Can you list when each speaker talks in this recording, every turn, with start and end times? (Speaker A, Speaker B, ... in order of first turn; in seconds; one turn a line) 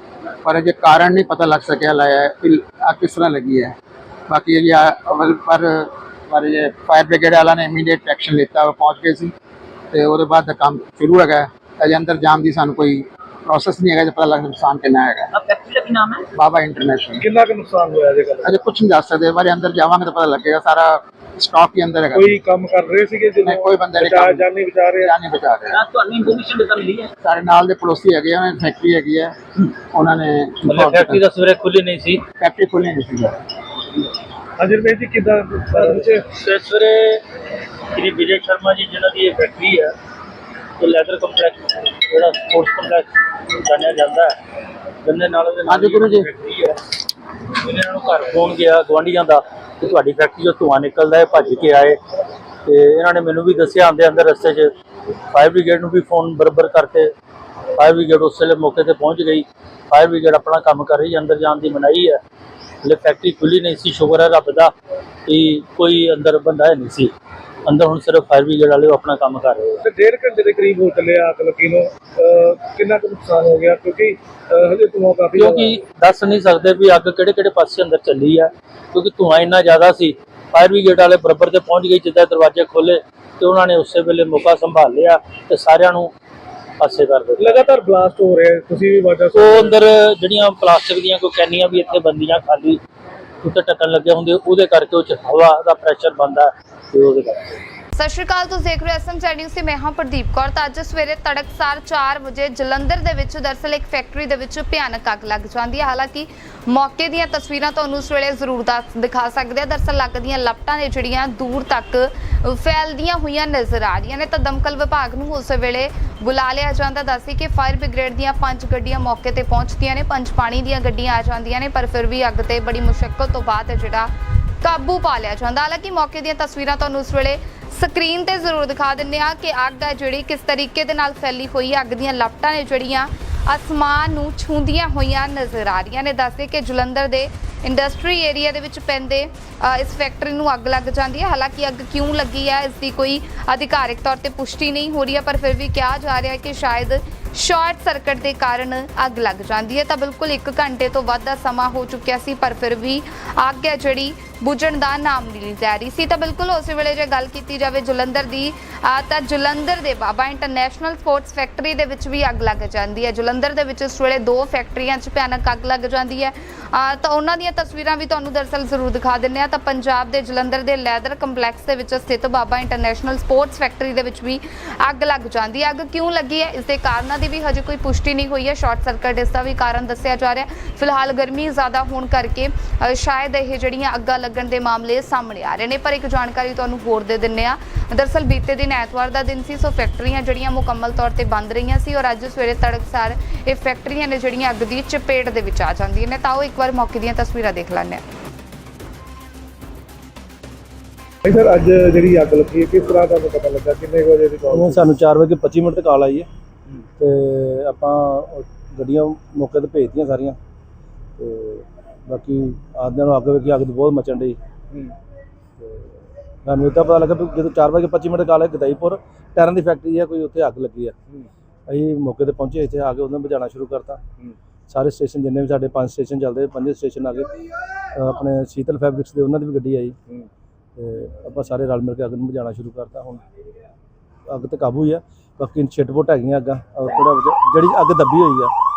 Speaker A: 0.4-3.7
Speaker A: 4.3-9.3
Speaker A: 9.9-15.3
Speaker B: 15.3-16.2
Speaker A: 16.3-17.2
Speaker C: 17.2-18.5
Speaker A: 18.4-22.4
Speaker C: 22.1-25.1
Speaker A: 23.4-25.8
Speaker B: 25.7-27.1
Speaker A: 27.2-29.3
Speaker A: 29.9-31.2
Speaker D: 30.6-32.2
Speaker A: 32.4-33.4
Speaker C: 34.6-36.2
Speaker D: 36.1-37.2
Speaker D: 37.9-39.9
Speaker D: 40.8-44.4
Speaker D: 45.0-46.8
Speaker A: 45.7-46.3
Speaker D: 47.6-52.0
Speaker D: 52.6-54.7
Speaker D: 55.3-57.1
Speaker D: 57.8-62.2
Speaker D: 62.8-64.7
Speaker D: 65.3-67.1
Speaker D: 67.6-69.8
Speaker C: 69.8-75.7
Speaker D: 75.3-86.1
Speaker D: 86.8-87.6
Speaker C: 87.4-89.7
Speaker D: 89.3-92.8
Speaker D: 93.4-97.5
Speaker E: 97.9-124.1
Speaker E: 124.6-198.0
Speaker C: 201.2-204.7
Speaker F: 204.5-206.3
Speaker F: 207.0-210.4
Speaker F: 211.2-214.4
Speaker F: 215.6-220.9
Speaker F: 221.7-224.0
Speaker F: 224.7-227.3
Speaker F: 227.9-230.0
Speaker F: 230.8-233.2
Speaker F: 234.3-238.5